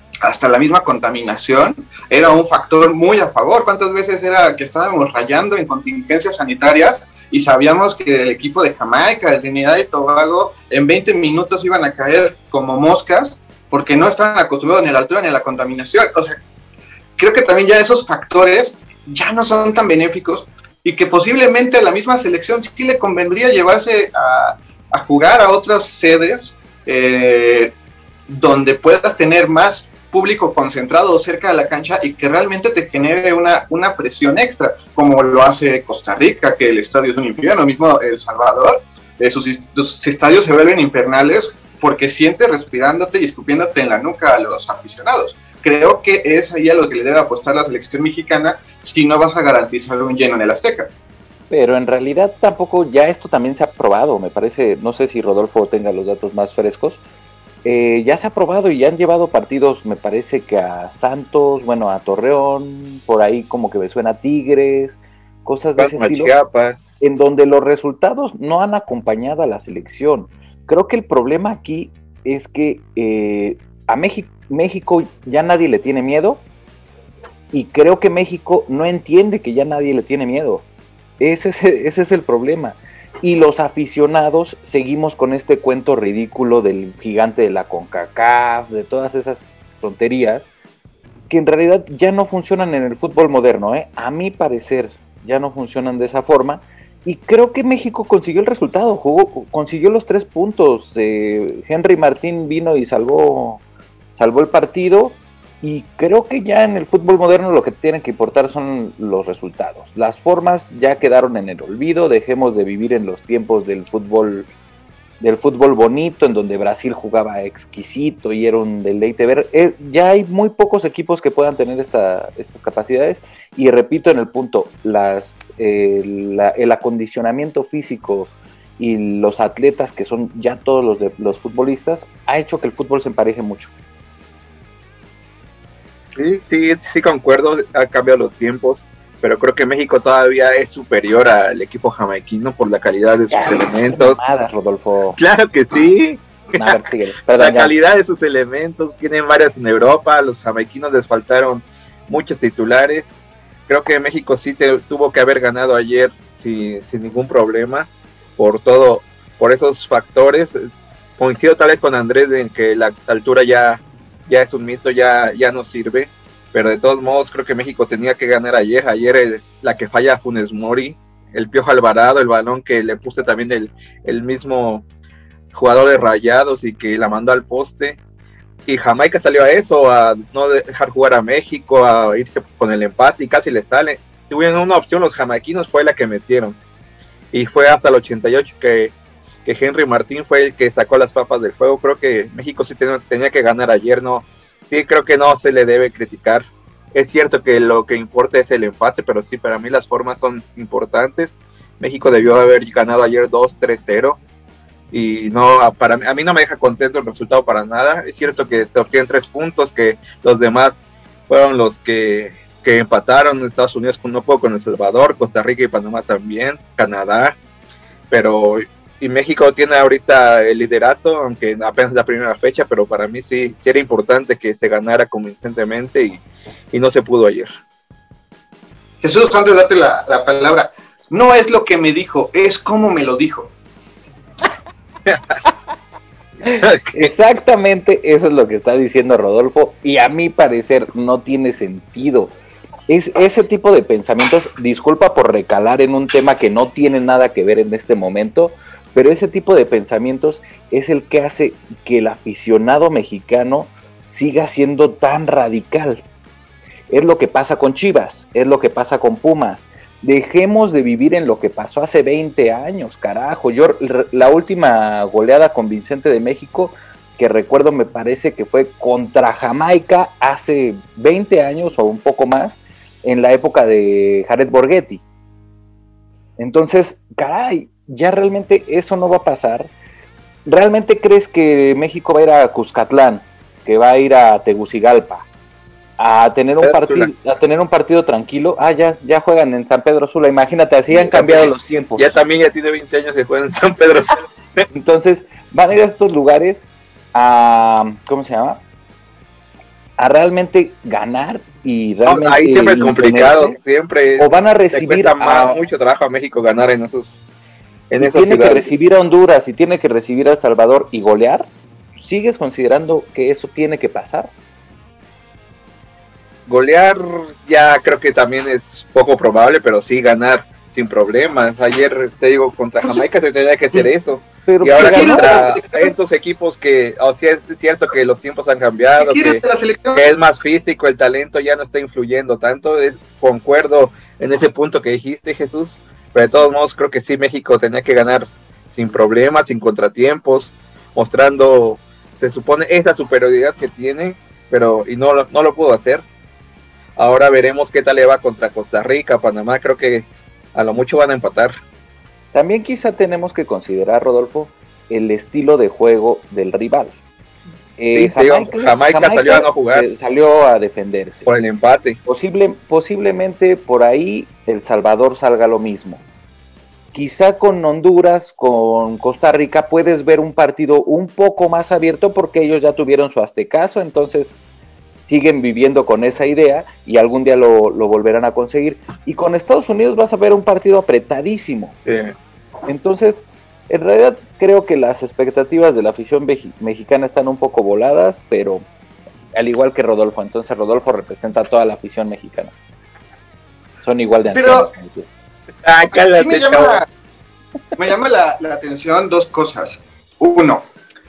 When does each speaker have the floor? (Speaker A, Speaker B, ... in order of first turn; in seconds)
Speaker A: 0.2-16.4, 17.2-27.7, 28.3-50.9, 229.0-233.5, 324.8-325.9, 329.0-330.1, 394.3-394.7, 395.9-396.9, 397.8-400.6
Speaker B: 51.5-57.0, 57.6-66.3, 67.0-76.4, 77.5-80.6, 81.2-90.5, 91.3-103.6, 104.2-114.5, 115.2-133.7, 143.3-145.2, 146.6-147.7, 236.5-242.3, 242.9-256.0, 256.9-275.0, 276.4-279.7, 280.4-285.2, 286.0-292.2, 294.7-298.6, 300.0-303.6, 304.2-305.6, 308.0-311.5, 312.0-314.3, 324.5-325.5, 352.3-356.9, 357.8-361.3, 362.1-366.0, 366.9-374.5, 375.1-381.8, 382.7-388.6, 389.3-392.5, 393.8-395.1
Speaker C: 65.8-66.8, 136.2-144.2, 145.1-146.8, 147.3-153.1, 153.7-160.6, 161.2-174.8, 175.5-178.0, 178.7-186.6, 187.3-188.9, 189.4-204.2, 204.9-217.4, 218.1-227.5, 235.1-235.3, 236.6-237.1, 286.6-287.1, 290.9-294.6, 302.1-307.1, 307.9-308.7, 316.5-329.4, 329.9-346.0, 347.0-351.5, 357.9-359.9, 361.2-362.0, 381.9-382.1, 395.6-396.8